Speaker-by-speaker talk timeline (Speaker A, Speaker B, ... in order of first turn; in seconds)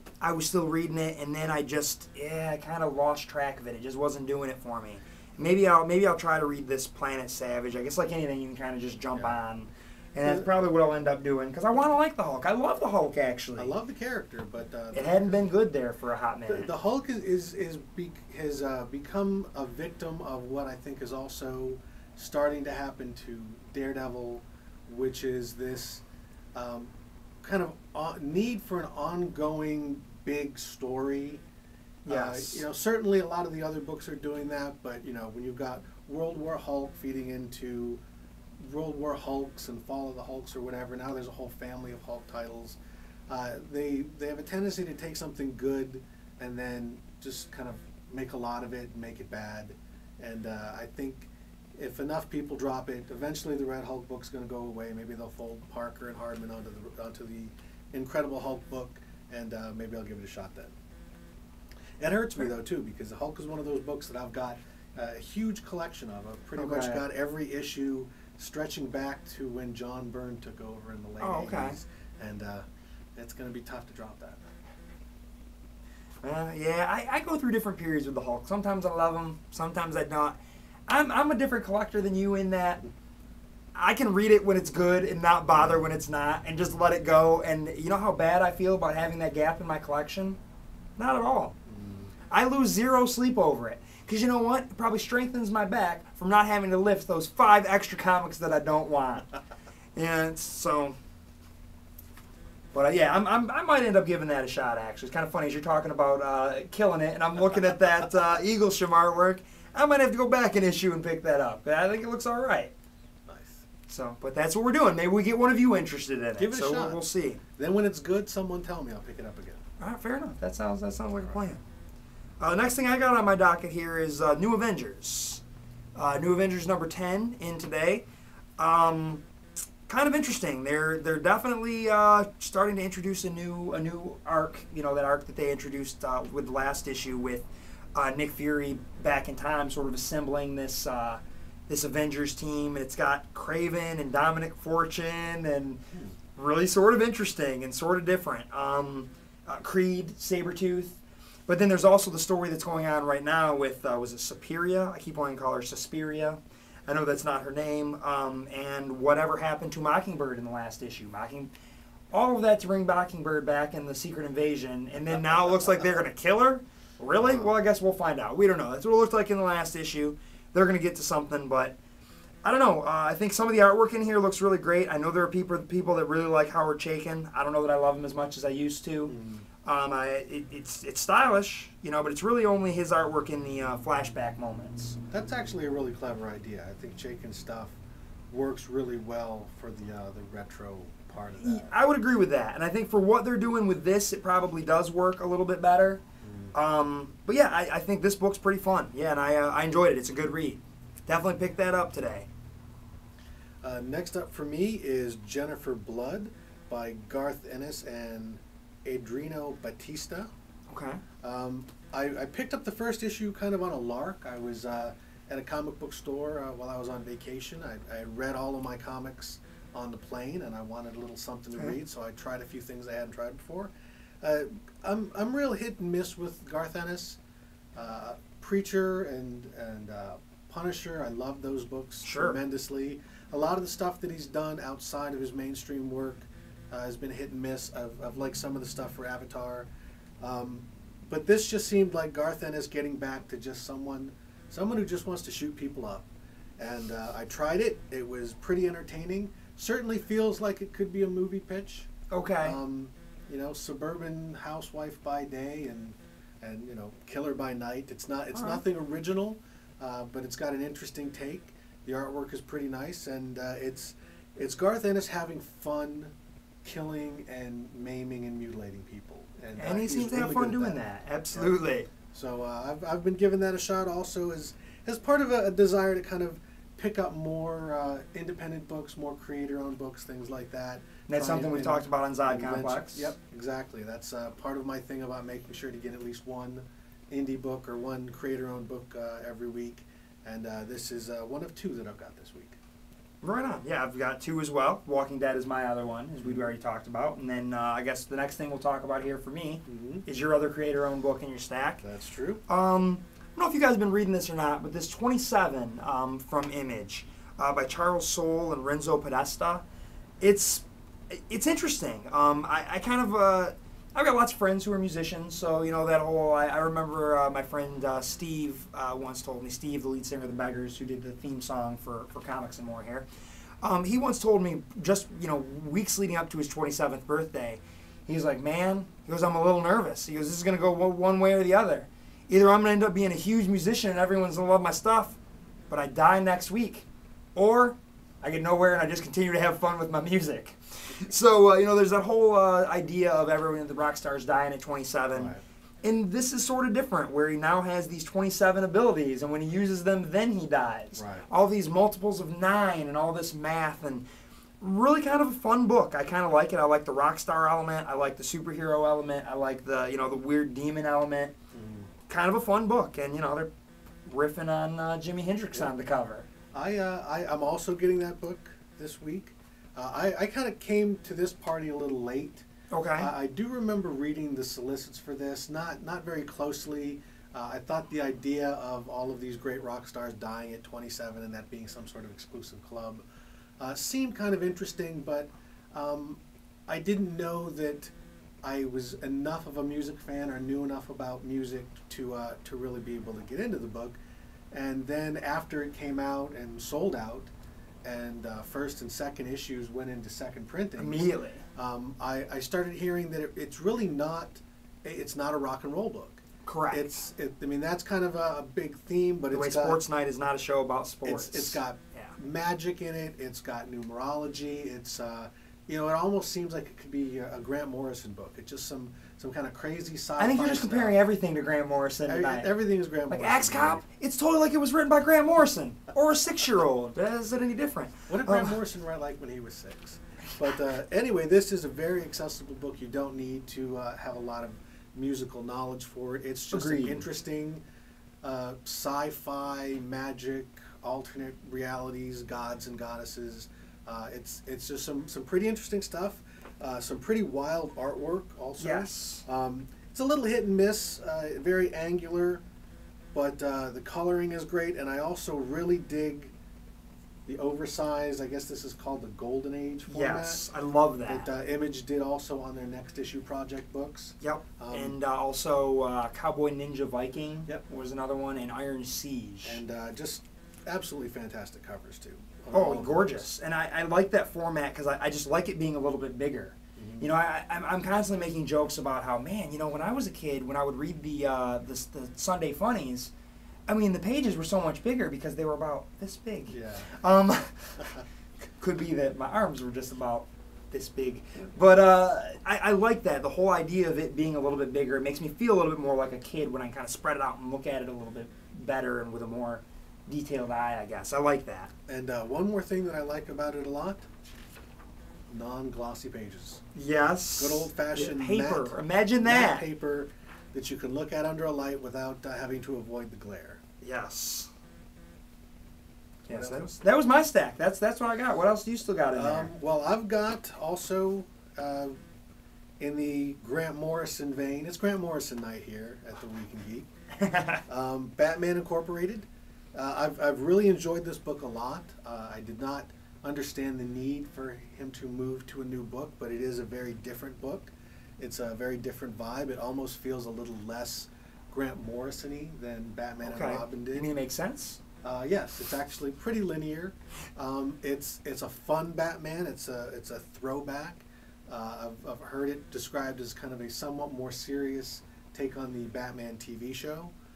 Speaker A: 0.2-13.7, 14.9-16.7, 32.0-32.6, 66.5-67.0, 71.2-71.8, 76.2-82.8, 83.7-90.4, 91.0-91.5, 92.3-99.3, 100.0-101.0, 102.7-112.7, 113.9-117.4, 119.8-121.6, 122.4-125.4, 125.9-128.0, 128.6-129.2, 129.9-145.8, 146.3-161.5, 162.1-171.8, 172.4-185.0, 191.4-202.3, 210.7-211.0, 232.0-232.4, 252.1-252.6, 258.3-258.6, 269.6-271.9, 281.1-283.1, 293.2-301.8, 302.5-309.6, 310.2-323.1, 323.6-335.2, 335.7-354.0, 354.6-361.3, 362.1-363.5, 364.1-366.3, 372.7-373.1, 400.8-401.4, 406.4-406.9, 409.3-412.1, 420.2-422.5, 423.1-428.6, 436.5-437.0, 448.6-449.2, 459.9-461.3, 464.2-469.6, 472.5-483.1, 483.7-488.0, 488.6-501.7, 506.7-509.6, 513.8-514.5, 516.3-519.5, 527.2-527.6, 543.2-544.8
Speaker B: 10.2-10.5, 13.6-15.5, 16.5-31.4, 32.0-38.0, 38.6-60.7, 62.0-74.5, 85.5-85.8, 91.7-92.1, 113.3-113.6, 116.4-117.0, 117.5-119.6, 167.2-167.5, 179.1-179.4, 185.1-187.8, 188.3-191.7, 196.2-196.5, 203.6-210.3, 211.2-227.2, 227.7-239.7, 240.2-251.9, 252.4-292.6, 299.7-300.0, 301.8-302.4, 345.1-345.4, 350.9-351.3, 361.5-361.9, 366.5-372.4, 373.0-383.0, 383.6-394.0, 394.5-397.3, 397.8-409.8, 411.0-421.0, 422.1-423.8, 428.1-437.6, 438.2-452.4, 453.1-456.3, 457.2-460.4, 461.1-465.0, 469.4-473.3, 476.8-477.1, 486.5-486.9, 501.9-504.1, 505.3-506.6, 507.4-513.6, 516.3-516.8, 519.1-522.0, 522.8-526.9, 527.6-544.1, 545.0-557.1